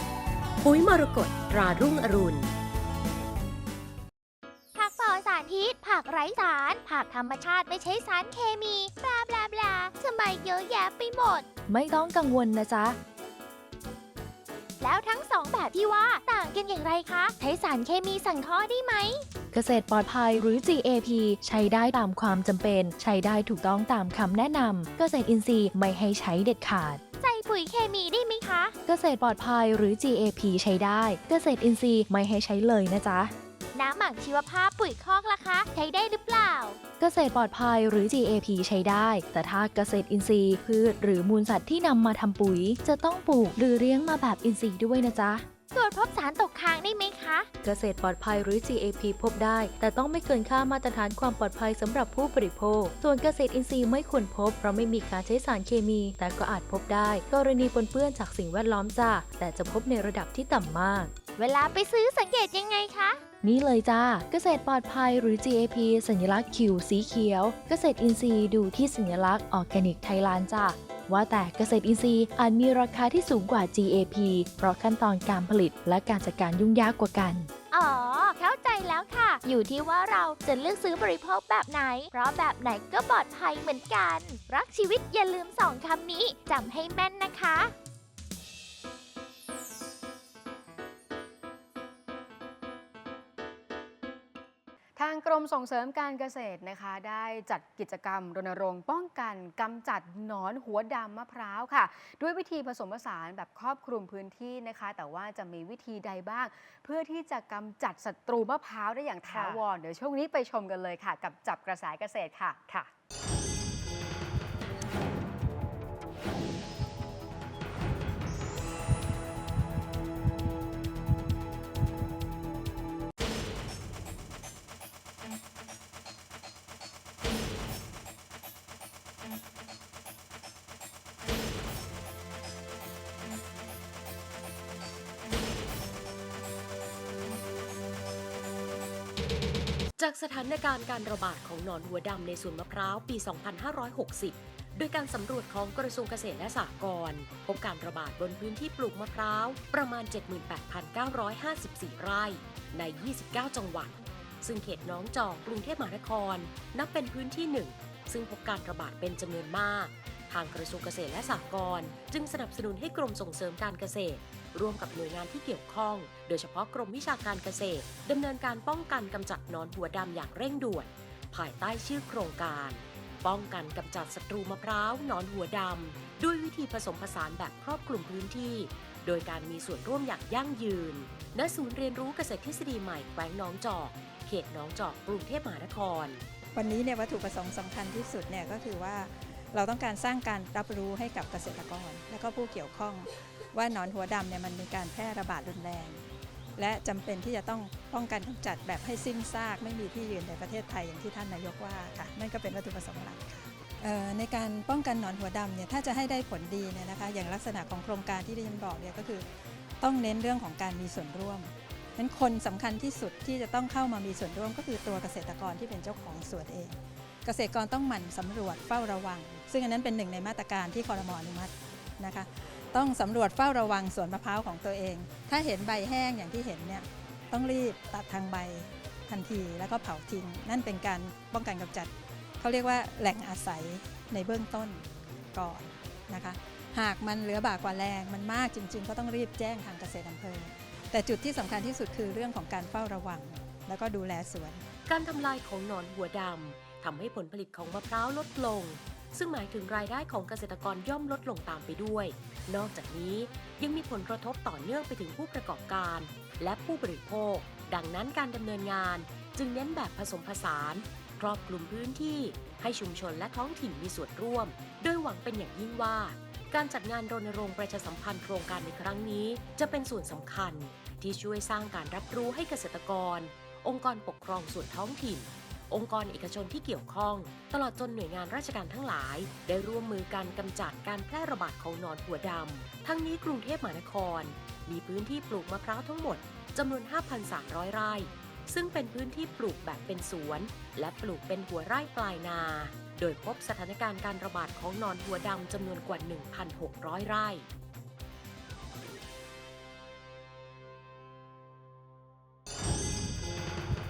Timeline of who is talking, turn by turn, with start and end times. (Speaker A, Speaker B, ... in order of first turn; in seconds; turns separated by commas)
Speaker A: 0.6-2.5, Speaker B: 4.8-11.5, Speaker C: 11.7-13.0, Speaker B: 14.8-19.1, Speaker C: 19.5-27.0, Speaker B: 27.2-28.7, Speaker C: 28.8-33.3, Speaker B: 33.7-36.8, Speaker C: 37.0-45.5, Speaker B: 45.7-47.5, Speaker C: 47.6-61.4, Speaker B: 61.4-63.2, Speaker C: 63.4-77.5, Speaker B: 77.7-87.7, Speaker D: 95.0-112.6, Speaker A: 109.2-109.6, Speaker A: 112.7-112.9, Speaker A: 140.0-186.2, Speaker E: 186.5-196.0, Speaker E: 196.6-209.3, Speaker E: 209.8-244.6, Speaker A: 244.9-297.5